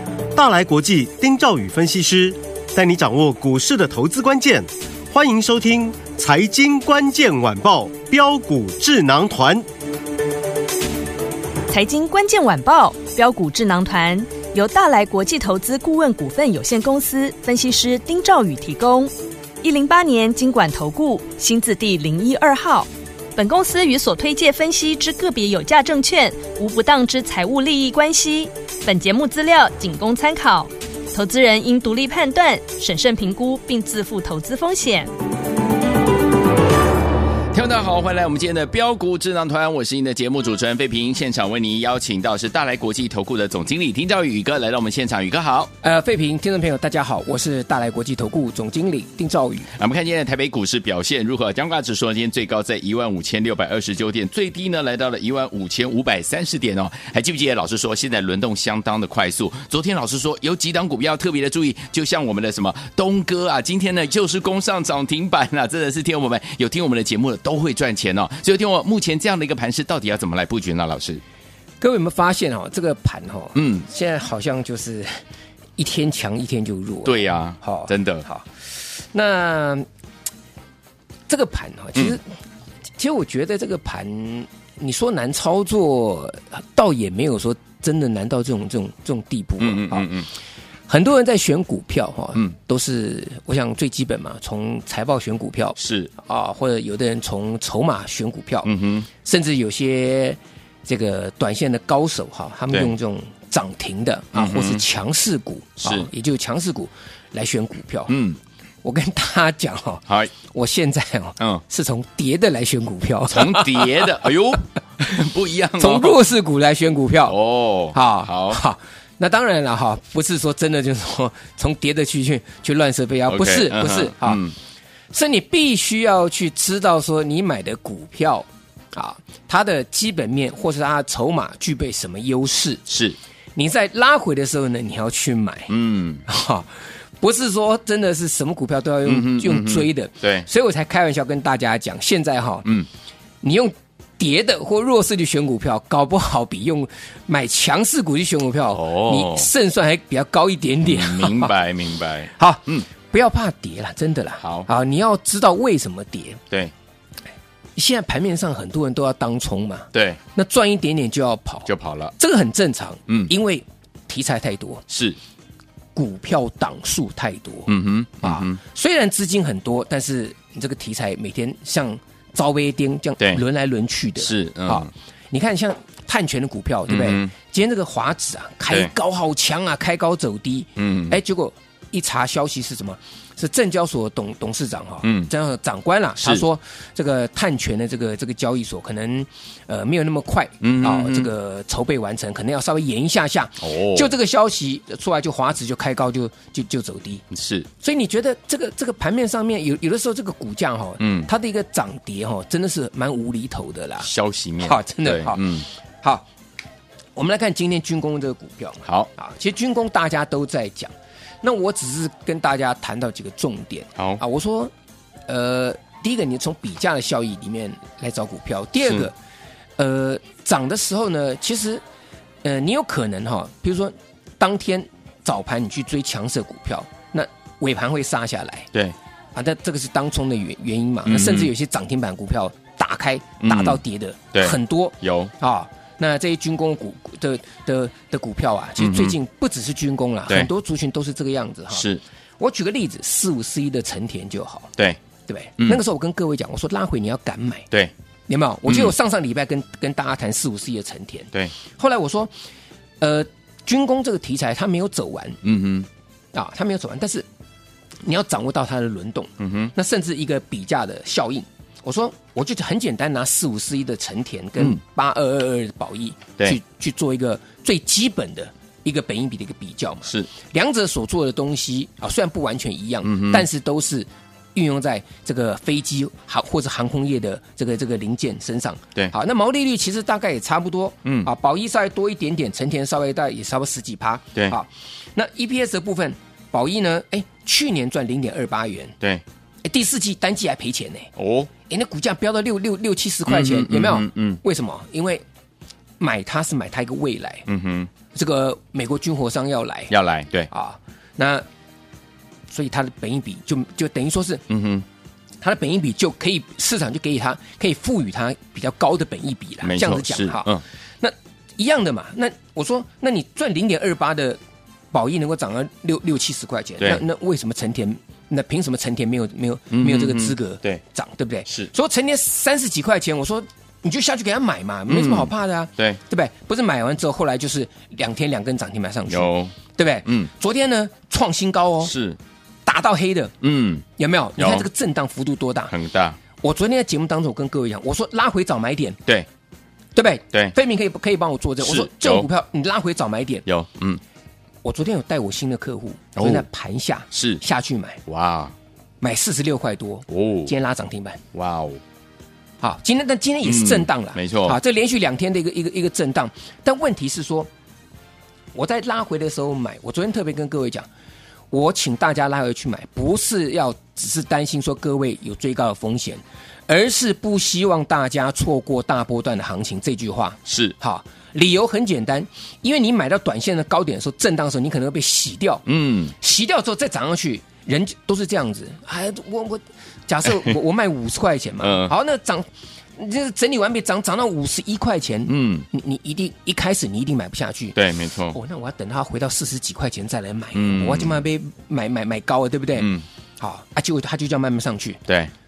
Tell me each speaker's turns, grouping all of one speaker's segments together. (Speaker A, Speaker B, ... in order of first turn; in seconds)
Speaker A: 0.3-9.7
Speaker B: 11.7-35.1
Speaker C: 37.5-45.7, 49.8-71.2, 73.5-73.8, 77.0-78.2, 89.6-90.3, 95.8-96.1, 98.6-99.1, 104.3-104.8, 105.8-106.1, 108.1-108.4, 110.1-110.3, 113.3-116.2, 117.3-118.6, 123.3-124.5, 132.9-133.2, 135.7-136.2, 139.0-140.5, 148.7-149.5, 150.8-152.8, 154.4-154.7, 159.9-160.2, 161.7-162.1, 164.9-165.2, 167.7-168.6, 174.2-174.9, 176.9-177.3, 180.8-181.2, 185.0-185.3, 186.2-186.4, 190.6-191.3, 193.6-194.1, 197.3-197.7, 201.0-201.3, 204.0-205.7, 208.8-209.1, 231.1-231.5, 233.4-233.8, 234.3-235.3, 238.8-239.2, 241.7-242.0, 248.7-248.9, 255.4-255.9, 259.4-259.7, 270.0-270.3, 273.0-273.4, 291.2-291.5, 293.3-294.4, 297.5-297.9, 299.9-300.5, 304.5-304.8, 309.6-310.6, 319.7-320.8, 324.9-326.0, 329.1-330.3, 331.8-332.2, 333.4-333.8, 334.4-334.6, 335.7-336.2, 341.6-342.3, 343.4-344.0, 346.1-346.4, 347.1-347.4, 348.1-348.5, 350.1-350.5, 351.3-351.8, 353.4-354.6, 370.5-370.7, 375.7-376.1, 381.6-381.9, 385.3-385.6, 387.7-388.4, 390.5-391.2, 392.8-393.1
Speaker D: 45.8-49.7, 71.8-75.1, 75.8-78.5, 79.1-79.8, 81.3-82.2, 83.0-90.1, 90.9-98.7, 99.2-108.1, 108.8-114.1, 115.8-117.3, 117.9-124.4, 125.1-132.8, 133.6-135.7, 136.2-142.7, 143.4-151.5, 152.3-156.4, 157.8-164.8, 165.9-197.2, 197.8-204.1, 204.6-205.4, 207.2-214.7, 215.3-219.1, 219.8-221.8, 222.4-228.7, 229.3-241.8, 242.4-244.7, 245.3-247.7, 248.3-252.3, 253.0-255.4, 256.3-257.2, 258.0-288.9, 289.6-291.1, 291.6-295.2, 296.0-297.4, 298.1-299.9, 300.5-301.4, 302.5-304.4, 305.4-314.4, 314.9-331.9, 332.6-333.3, 334.0-335.7, 336.4-339.0, 339.9-343.4, 344.6-348.0, 349.0-351.2, 352.6-357.5, 358.5-360.9, 361.5-375.6, 376.2-387.8, 388.3-392.9, 393.4-395.0